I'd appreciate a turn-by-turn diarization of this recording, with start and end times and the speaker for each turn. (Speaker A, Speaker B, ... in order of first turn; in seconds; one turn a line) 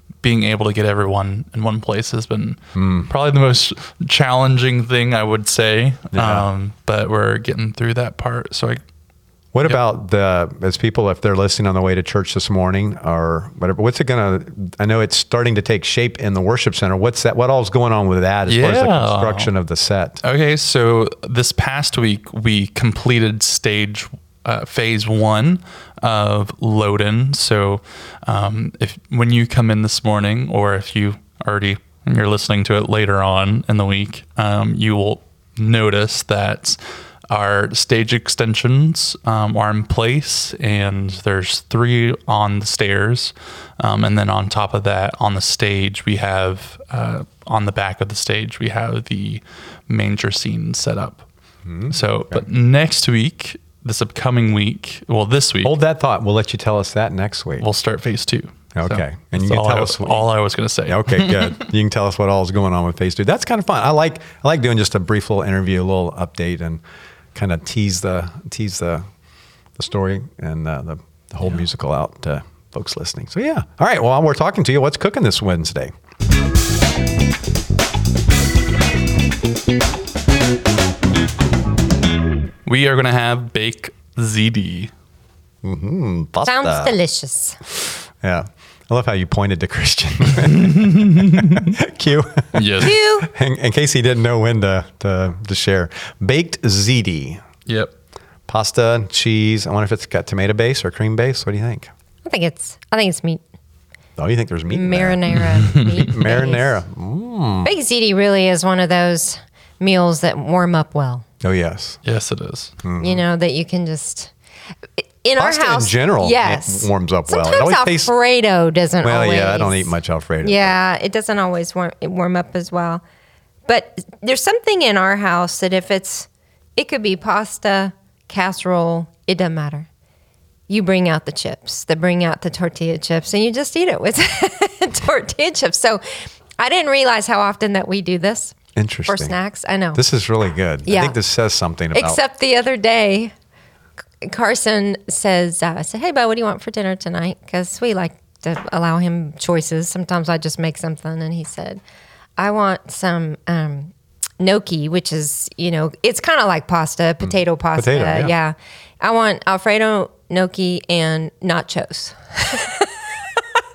Speaker A: 0.2-8.8
Speaker B: 2.8-3.1
Speaker B: 6.1-6.5
Speaker B: 9.5-20.2
Speaker A: 18.5-19.5
Speaker A: 20.2-36.8
Speaker A: 37.3-51.2
Speaker B: 51.7-52.4
Speaker A: 51.9-55.7
Speaker B: 55.6-57.7
Speaker A: 57.6-61.6
Speaker B: 58.8-60.3
Speaker B: 60.9-66.8
Speaker B: 67.3-69.0
Speaker B: 69.8-75.9
Speaker A: 82.7-84.9
Speaker B: 85.6-87.0
Speaker C: 86.5-87.6
Speaker B: 87.8-97.4
Speaker A: 90.7-91.7
Speaker A: 92.5-93.0
Speaker C: 92.8-93.3
Speaker B: 98.5-101.9
Speaker C: 102.2-103.4
Speaker B: 104.2-107.7
Speaker C: 104.7-106.8
Speaker C: 107.6-111.2
Speaker B: 111.4-112.0
Speaker A: 112.0-112.7
Speaker B: 112.8-113.2
Speaker C: 113.0-114.3
Speaker C: 115.0-119.9
Speaker B: 115.4-118.1
Speaker B: 119.0-120.8
Speaker C: 120.4-123.0
Speaker C: 123.7-129.9
Speaker C: 130.7-136.0
Speaker C: 136.6-138.6
Speaker B: 138.8-139.4
Speaker C: 139.1-140.0
Speaker B: 139.9-142.2
Speaker C: 140.9-141.2
Speaker C: 141.9-143.3
Speaker C: 144.2-151.8
Speaker C: 152.4-163.0
Speaker B: 157.2-158.3